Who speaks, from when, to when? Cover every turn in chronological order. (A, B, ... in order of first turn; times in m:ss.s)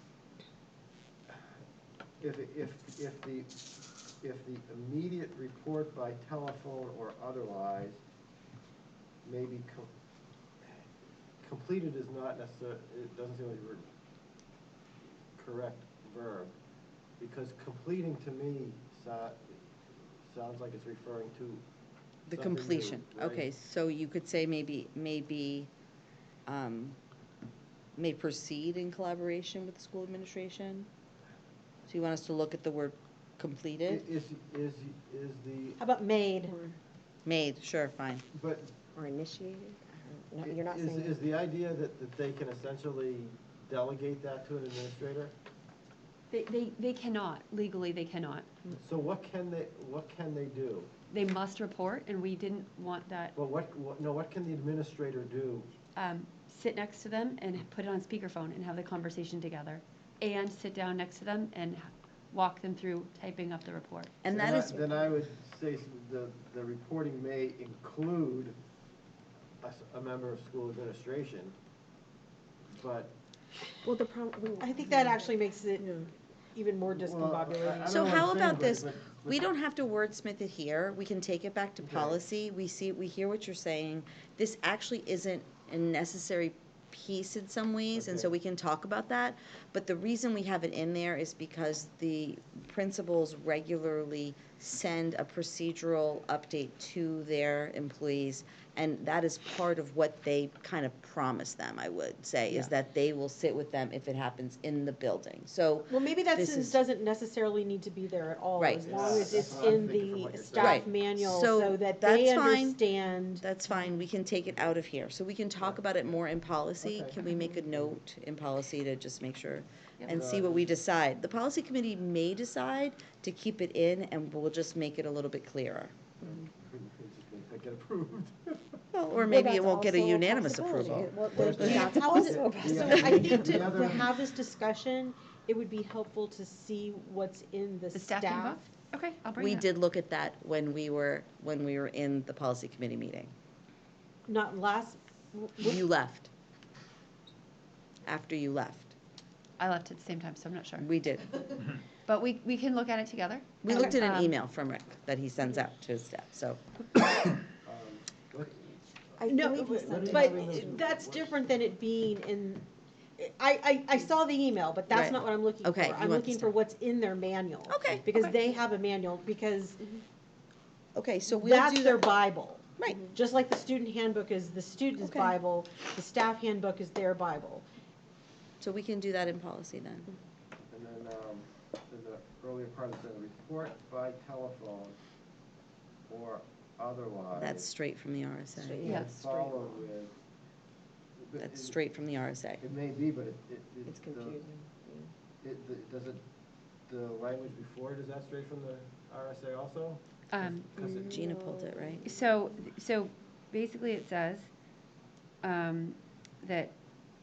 0:02.2-0:03.5 A
0:04.2-0:08.0 A
0:09.2-0:09.9 A
0:11.4-0:13.9 A
0:15.4-0:16.6 A
0:17.2-0:19.7 A
0:20.2-0:21.6 A
0:22.3-0:25.7 B
0:22.3-0:23.5 A
0:26.5-0:27.0 B
0:28.0-0:30.9 B
0:31.9-0:34.0 B
0:33.9-0:35.8 A
0:35.8-0:36.6 C
0:36.4-0:36.8 D
0:37.2-0:38.2 B
0:38.3-0:38.8 A
0:39.0-0:41.2 D
0:40.4-0:45.3 A
0:46.3-0:48.5 E
0:48.7-0:50.9 A
0:51.1-0:53.4 E
0:53.4-0:55.7 A
0:56.0-1:04.2 E
1:04.2-1:04.8 B
1:04.3-1:08.6 A
1:09.6-1:11.6 A
1:12.8-1:13.1 A
1:13.8-1:16.1 D
1:14.6-1:15.9 C
1:16.5-1:18.3 C
1:16.9-1:19.4 A
1:17.9-1:46.8 B
1:21.8-1:22.2 A
1:27.9-1:28.3 A
1:45.9-1:53.4 C
1:48.6-1:48.9 B
1:48.8-1:50.9 A
1:50.6-1:52.8 B
1:53.4-2:06.0 B
1:56.8-1:57.2 A
2:00.1-2:00.7 A
2:06.2-2:08.8 A
2:08.9-2:12.4 B
2:09.2-2:13.9 D
2:11.3-2:14.1 A
2:11.4-2:18.7 C
2:17.9-2:19.6 E
2:19.4-2:23.3 B
2:24.3-2:25.8 C
2:25.6-2:26.3 B
2:28.0-2:28.9 B
2:29.6-2:30.9 E
2:30.8-2:31.7 B
2:32.1-2:34.4 E
2:33.6-2:36.6 B
2:37.6-2:38.7 A
2:39.2-2:40.8 D
2:39.3-2:42.6 C
2:39.8-2:41.3 A
2:43.2-2:50.0 C
2:44.9-2:46.6 B
2:47.7-2:48.1 B
2:51.0-2:52.2 B
2:51.3-2:57.6 C
2:52.8-2:53.1 B
2:55.0-2:55.3 D
2:58.6-3:00.1 B
3:00.7-3:05.0 A
3:06.1-3:07.7 A
3:07.4-3:08.8 B
3:08.5-3:09.8 D
3:08.8-3:09.1 E
3:08.8-3:10.2 A
3:11.2-3:11.8 A
3:11.4-3:12.6 B
3:12.6-3:14.4 A
3:13.9-3:15.1 D
3:15.4-3:16.2 A
3:16.9-3:21.2 A
3:20.3-3:20.7 E
3:20.8-3:22.2 D
3:21.1-3:22.0 B
3:22.0-3:24.5 E
3:25.4-3:26.7 E